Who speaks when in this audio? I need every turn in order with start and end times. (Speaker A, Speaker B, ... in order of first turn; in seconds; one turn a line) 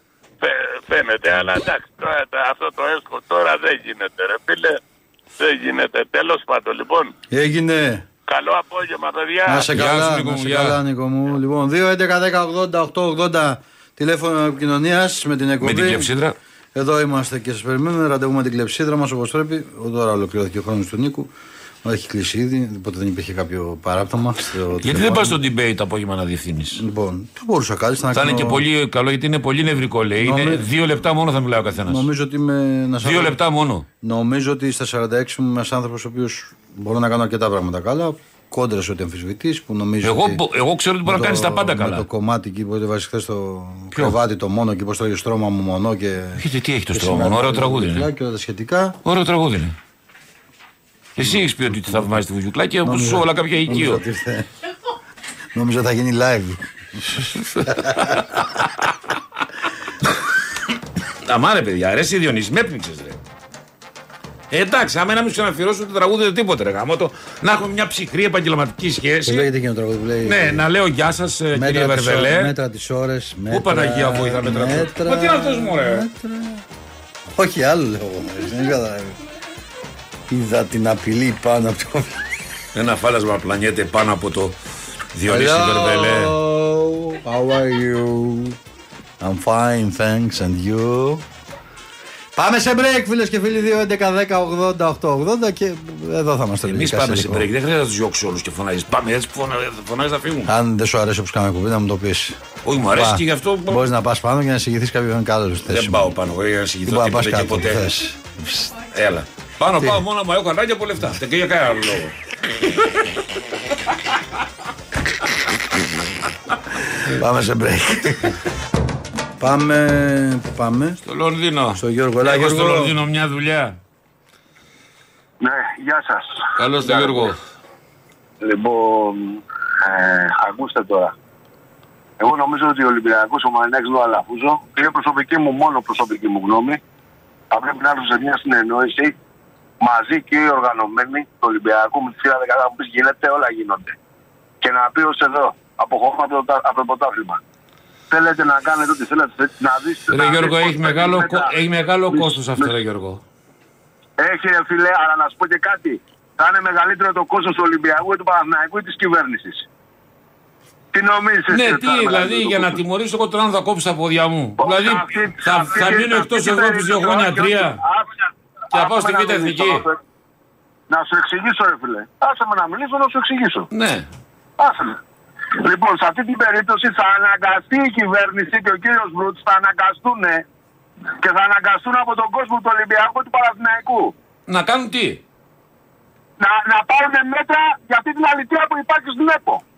Speaker A: 0.4-4.8
Speaker A: 5.4-7.1
Speaker B: 7.3-8.0
Speaker A: 8.3-9.7
Speaker B: 9.4-16.1
Speaker C: 9.7-10.8
Speaker C: 15.6-16.3
Speaker B: 16.7-21.3
Speaker B: 21.8-25.4
Speaker C: 24.8-26.8
Speaker B: 26.7-28.6
Speaker C: 28.1-32.0
Speaker B: 30.2-30.7
Speaker B: 31.8-33.4
Speaker C: 33.0-33.9
Speaker B: 34.0-40.4
Speaker C: 40.0-42.0
Speaker B: 41.0-49.0
Speaker C: 46.4-48.1
Speaker C: 49.0-49.8
Speaker C: 51.2-54.0
Speaker B: 51.2-52.1
Speaker B: 52.8-54.5
Speaker B: 55.5-58.4
Speaker C: 57.5-58.2
Speaker C: 61.2-63.2
Speaker C: 64.5-69.5
Speaker B: 69.2-70.6
Speaker C: 70.2-72.5
Speaker B: 71.5-76.6
Speaker C: 73.5-76.0
Speaker B: 77.3-79.2
Speaker B: 80.3-82.2
Speaker C: 82.7-84.5
Speaker C: 85.1-86.3
Speaker B: 85.2-88.6
Speaker B: 89.2-91.2
Speaker B: 92.3-97.5
Speaker C: 96.7-100.5
Speaker B: 100.5-102.4
Speaker C: 102.6-103.9
Speaker B: 102.9-106.1
Speaker C: 105.7-107.9
Speaker B: 106.8-108.8
Speaker C: 108.9-112.1
Speaker B: 117.1-118.3
Speaker B: 119.4-121.0
Speaker C: 121.0-123.8
Speaker B: 121.7-122.9
Speaker D: 125.4-127.3
Speaker C: 126.6-127.4
Speaker D: 128.4-131.1
Speaker D: 132.2-136.8
Speaker D: 137.5-139.1
Speaker D: 139.8-143.9
Speaker D: 144.6-147.4
Speaker D: 148.1-151.5
Speaker C: 150.1-153.2
Speaker D: 152.1-152.7
Speaker D: 154.2-159.7
Speaker D: 160.9-162.8
Speaker C: 161.5-167.8
Speaker D: 164.6-168.1
Speaker D: 168.7-170.0
Speaker C: 168.7-169.8
Speaker D: 170.9-173.7
Speaker C: 173.7-174.1
Speaker D: 174.6-175.0
Speaker D: 175.6-180.4
Speaker D: 181.2-184.1
Speaker C: 184.5-185.2
Speaker D: 186.4-189.6